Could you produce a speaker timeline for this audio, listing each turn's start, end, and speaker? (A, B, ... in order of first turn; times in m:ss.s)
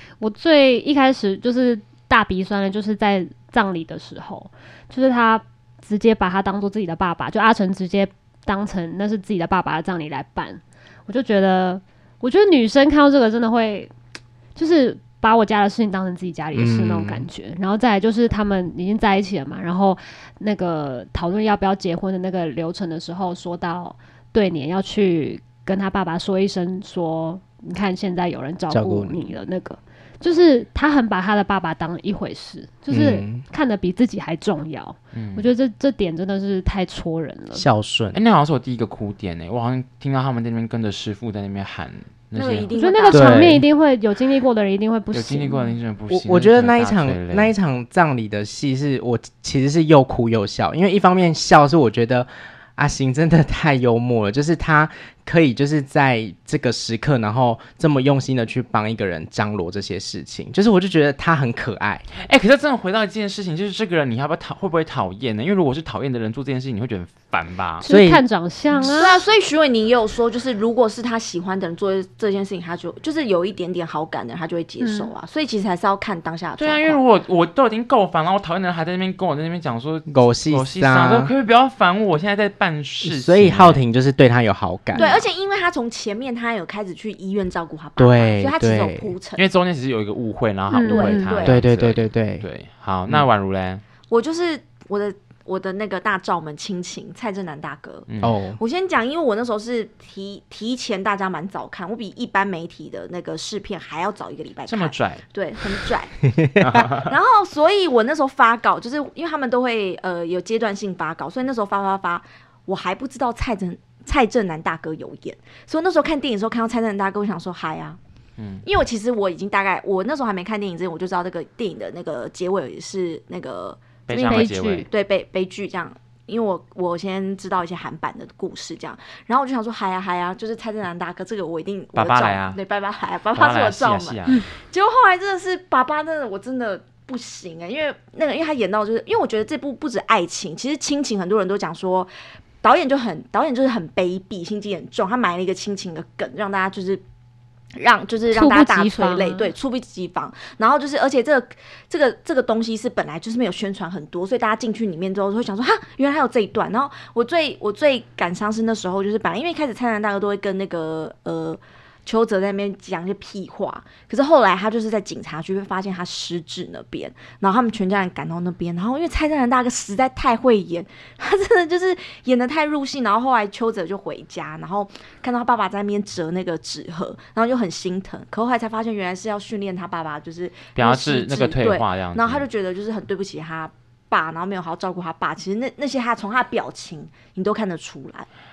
0:00.2-0:13.9 A
0:14.6-0:37.7 A
0:16.5-0:17.3 B
0:28.7-0:29.2 B
0:32.9-0:33.4 B
0:35.1-0:35.5 C
0:37.5-0:38.2 B
0:38.1-0:42.7 C
0:42.4-0:43.6 D
0:42.7-0:45.8 A
0:43.1-0:43.6 B
0:45.1-0:47.5 C
0:46.1-1:02.0 B
1:02.2-1:07.8 C
1:07.8-1:09.2 A
1:07.8-1:08.2 B
1:08.8-1:17.0 D
1:14.8-1:15.1 A
1:16.6-1:23.8 C
1:20.1-1:21.3 B
1:23.0-1:25.2 B
1:25.0-1:29.4 D
1:28.0-1:29.1 B
1:29.4-1:33.8 C
1:30.7-1:31.3 A
1:30.8-1:31.6 D
1:31.4-1:32.5 B
1:34.1-1:46.2 D
1:38.1-1:38.4 C
1:38.2-1:38.6 B
1:44.7-1:45.2 C
1:46.3-1:46.9 B
1:46.6-1:47.1 C
1:47.0-1:58.0 D
1:58.4-1:58.7 C
1:58.6-2:27.0 D
2:04.1-2:04.9 C
2:04.3-2:04.9 A
2:12.0-2:12.6 C
2:13.4-2:14.4 C
2:27.8-3:08.3 D
2:28.3-2:29.5 A
3:00.8-3:02.5 C